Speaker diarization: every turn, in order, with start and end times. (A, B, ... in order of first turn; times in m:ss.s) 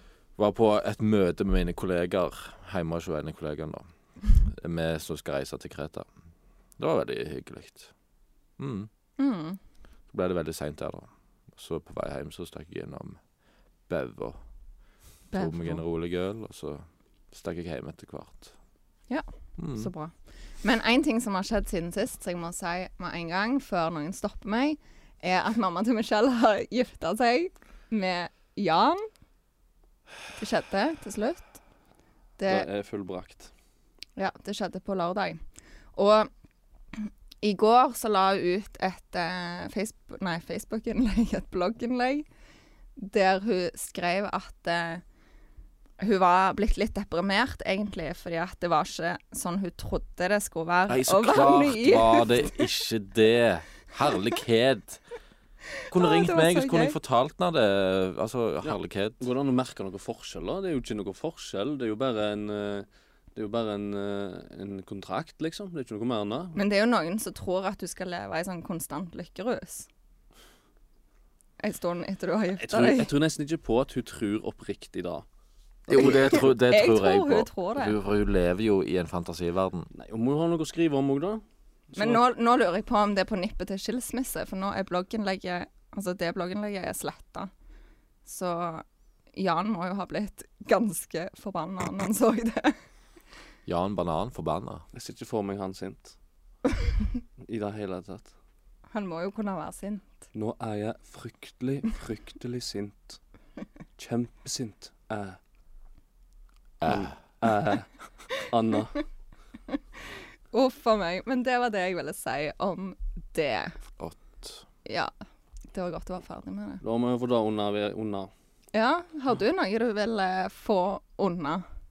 0:00.4-0:03.8 A
0:04.4-0:06.1 A
0:06.8-0:07.9 A
0:08.6-0:08.9 A
0:09.2-0:09.6 B
0:10.1-0:13.2 A
0:13.9-0:14.4 A
0:15.3-0:15.8 B
0:15.3-0:18.5 A
0:19.1-0:29.1 B
0:19.6-0:19.9 A
0:30.4-0:31.6 B
0:32.4-0:32.7 B
0:32.5-0:33.5 C
0:34.2-0:35.4 B
0:35.9-0:36.3 B
0:37.0-0:42.2 B
0:43.0-0:45.0 B
0:46.0-0:52.6 B
0:50.9-0:55.0 A
0:55.9-0:59.2 A
0:55.9-0:57.0 B
0:58.6-1:06.6 C
1:06.5-1:09.9 B
1:11.6-1:13.1 B
1:12.6-1:15.2 C
1:15.9-1:16.4 C
1:15.9-1:19.9 A
1:15.9-1:18.0 B
1:19.9-1:22.2 C
1:21.9-1:27.5 B
1:28.2-1:32.8 B
1:33.6-1:34.8 A
1:34.9-1:36.2 C
1:37.4-1:38.3 C
1:38.9-1:40.2 B
1:40.3-1:43.2 C
1:44.0-1:45.4 C
1:46.8-1:47.1 A
1:46.8-1:49.0 C
1:50.5-1:53.8 B
1:54.0-1:54.6 A
1:54.8-1:55.1 B
1:55.7-1:56.8 B
1:56.8-1:58.3 C
1:58.7-2:01.6 B